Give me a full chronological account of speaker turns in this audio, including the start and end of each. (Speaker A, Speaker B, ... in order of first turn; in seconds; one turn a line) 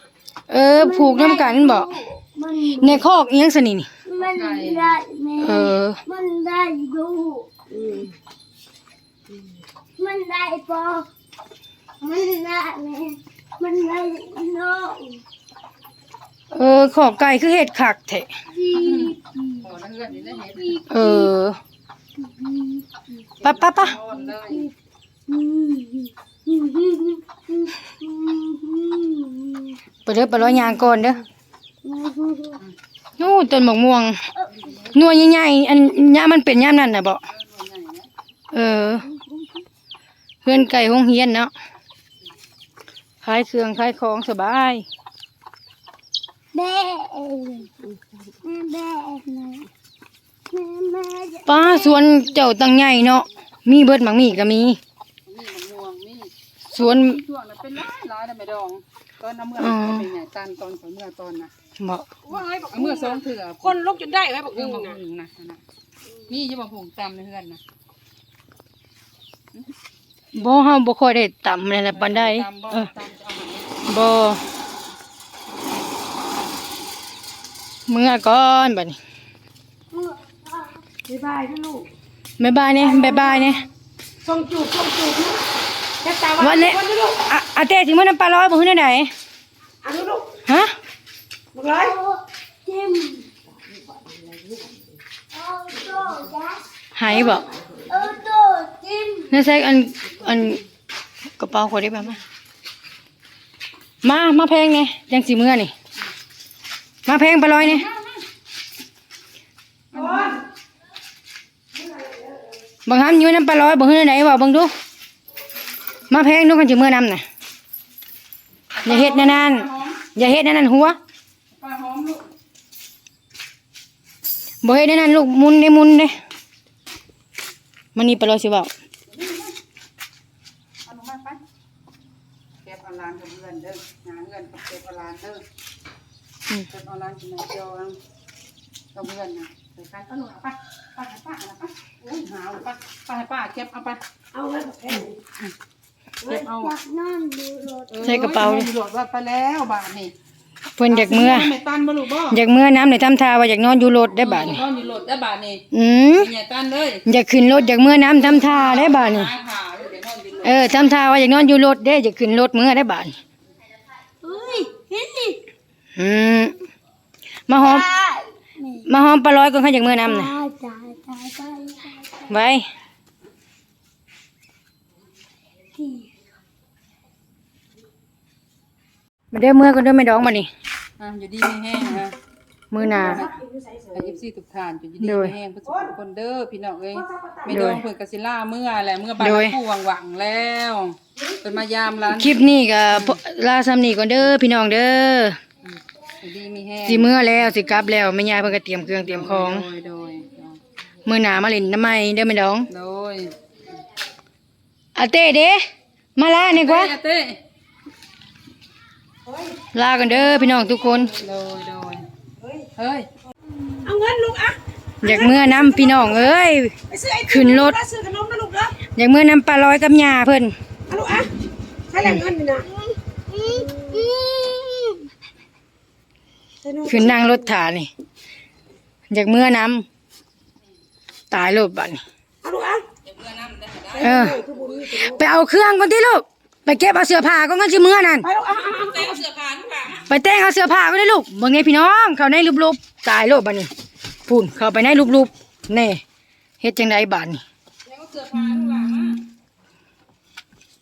Speaker A: 0.5-1.9
Speaker B: 0.8-3.0
Speaker A: 2.8-3.9
Speaker B: 4.0-7.5
Speaker C: 4.2-5.0
Speaker A: 5.4-6.0
Speaker D: 7.7-8.1
Speaker B: 10.0-11.1
Speaker B: 12.0-15.2
Speaker A: 16.5-18.3
Speaker B: 18.5-19.6
Speaker C: 18.7-20.8
Speaker B: 20.6-21.3
Speaker A: 20.9-21.6
Speaker B: 22.2-23.2
Speaker C: 23.4-24.7
Speaker A: 23.4-24.0
Speaker B: 24.1-24.7
Speaker B: 25.3-29.8
Speaker A: 30.1-31.2
Speaker B: 31.8-32.6
Speaker A: 33.2-34.2
Speaker C: 34.6-35.0
Speaker A: 34.9-37.2
Speaker C: 37.3-38.1
Speaker A: 38.5-39.0
Speaker B: 39.0-39.5
Speaker A: 40.4-41.5
Speaker A: 43.2-44.9
Speaker B: 46.5-47.7
Speaker B: 48.4-49.7
Speaker B: 50.5-52.3
Speaker A: 51.5-54.8
Speaker C: 55.2-61.5
Speaker A: 56.7-57.2
Speaker A: 59.6-60.1
Speaker A: 61.8-62.1
Speaker D: 62.2-65.0
Speaker C: 62.6-63.8
Speaker C: 64.5-65.6
Speaker C: 66.3-67.6
Speaker A: 70.3-72.7
Speaker C: 71.9-73.8
Speaker A: 73.9-74.4
Speaker A: 77.9-79.0
Speaker B: 79.9-80.8
Speaker D: 81.1-81.9
Speaker A: 82.4-83.7
Speaker D: 82.8-83.5
Speaker D: 84.2-85.4
Speaker D: 86.0-87.2
Speaker A: 86.4-89.1
Speaker D: 89.8-90.4
Speaker A: 90.5-90.7
Speaker D: 91.5-91.9
Speaker B: 91.7-93.3
Speaker D: 93.5-94.9
Speaker B: 95.3-96.6
Speaker A: 96.9-97.5
Speaker D: 97.2-97.7
Speaker B: 97.8-99.3
Speaker A: 99.3-100.6
Speaker A: 101.4-102.2
Speaker A: 104.0-105.7
Speaker A: 107.0-107.8
Speaker C: 107.6-108.2
Speaker C: 109.9-110.4
Speaker D: 110.0-110.3
Speaker A: 112.8-114.7
Speaker A: 116.1-117.2
Speaker C: 118.7-120.0
Speaker A: 118.8-121.0
Speaker C: 121.5-122.3
Speaker A: 124.6-126.2
Speaker A: 127.9-128.7
Speaker C: 129.1-129.5
Speaker C: 130.8-131.4
Speaker C: 132.6-135.4
Speaker C: 136.7-138.0
Speaker C: 138.9-144.0
Speaker D: 144.3-145.1
Speaker D: 146.2-146.5
Speaker C: 146.2-146.7
Speaker B: 146.6-148.2
Speaker C: 147.9-150.1
Speaker A: 148.0-148.7
Speaker A: 150.8-151.5
Speaker C: 150.9-152.4
Speaker A: 152.3-154.6
Speaker C: 154.2-157.0
Speaker A: 155.7-156.3
Speaker A: 157.1-159.3
Speaker C: 158.2-160.7
Speaker A: 160.4-163.2
Speaker B: 164.2-165.4
Speaker A: 165.9-166.5
Speaker A: 167.5-167.9
Speaker B: 167.6-168.9
Speaker A: 168.9-170.3
Speaker B: 170.0-172.3
Speaker A: 172.3-172.7
Speaker B: 175.7-176.1
Speaker A: 179.3-180.5
Speaker C: 181.0-182.1
Speaker A: 182.7-183.3
Speaker D: 182.8-184.2
Speaker C: 183.0-183.4
Speaker C: 183.9-192.4
Speaker A: 185.0-185.3
Speaker D: 185.6-185.9
Speaker D: 186.9-187.7
Speaker A: 187.5-187.8
Speaker A: 189.2-189.6
Speaker A: 192.1-195.4
Speaker C: 192.9-193.2
Speaker C: 195.7-197.1
Speaker A: 196.8-199.7
Speaker C: 199.1-200.6
Speaker A: 201.0-202.7
Speaker C: 202.7-203.3
Speaker A: 204.9-205.6
Speaker A: 206.2-206.9
Speaker C: 206.5-207.4
Speaker A: 209.7-211.1
Speaker C: 211.2-212.1
Speaker C: 212.8-213.1
Speaker D: 213.8-216.3
Speaker A: 215.0-216.7
Speaker D: 216.9-218.8
Speaker A: 217.3-217.8
Speaker A: 218.9-220.5
Speaker D: 220.9-221.3
Speaker D: 221.9-222.7
Speaker B: 222.8-225.0
Speaker D: 223.4-224.1
Speaker D: 226.6-227.5
Speaker A: 226.9-227.9
Speaker A: 229.1-229.8
Speaker A: 231.3-232.0
Speaker D: 232.4-232.8
Speaker C: 233.0-234.2
Speaker D: 233.9-235.2
Speaker A: 234.0-234.4
Speaker A: 235.0-238.3
Speaker D: 238.2-239.2
Speaker C: 238.5-240.0
Speaker A: 240.0-243.7
Speaker A: 244.3-246.0
Speaker A: 246.6-247.4
Speaker C: 247.8-249.2